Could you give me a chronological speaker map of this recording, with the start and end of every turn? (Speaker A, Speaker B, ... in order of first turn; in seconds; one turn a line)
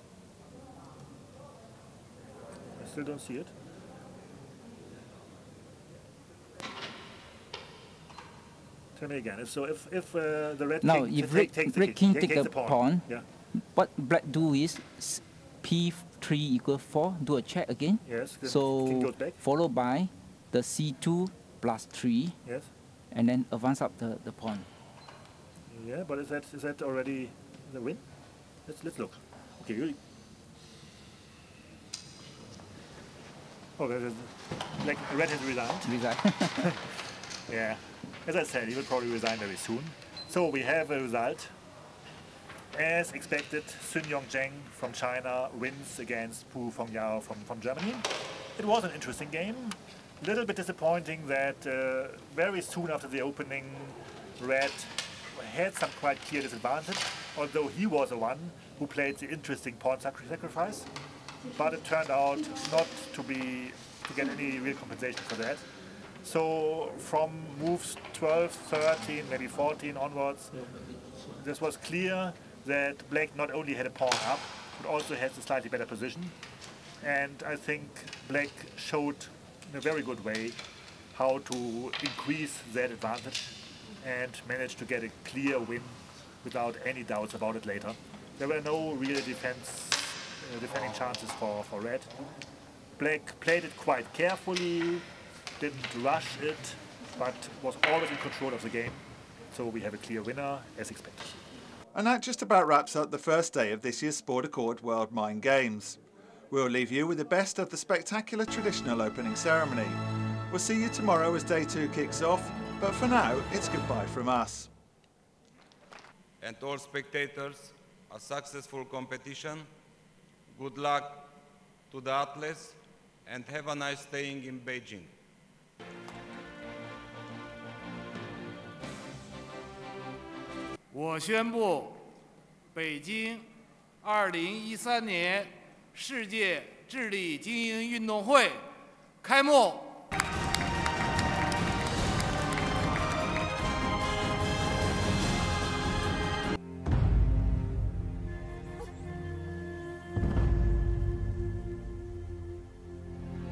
Speaker A: 2.8-3.5
Speaker A: 8.9-13.2
Speaker B: 10.8-22.4
Speaker A: 18.0-19.4
Speaker B: 23.1-24.7
Speaker A: 25.7-28.0
Speaker A: 28.6-30.0
Speaker A: 33.8-35.9
Speaker B: 35.8-36.7
Speaker A: 37.5-41.5
Speaker A: 42.7-60.9
Speaker A: 61.4-65.7
Speaker A: 66.2-76.4
Speaker A: 77.0-80.6
Speaker A: 81.1-92.1
Speaker A: 93.0-95.1
Speaker A: 95.6-101.4
Speaker C: 101.9-114.7
Speaker D: 116.4-119.7
Speaker D: 120.5-121.3
Speaker D: 121.9-125.1
Speaker E: 130.9-132.1
Speaker E: 132.7-138.6
Speaker E: 139.2-140.0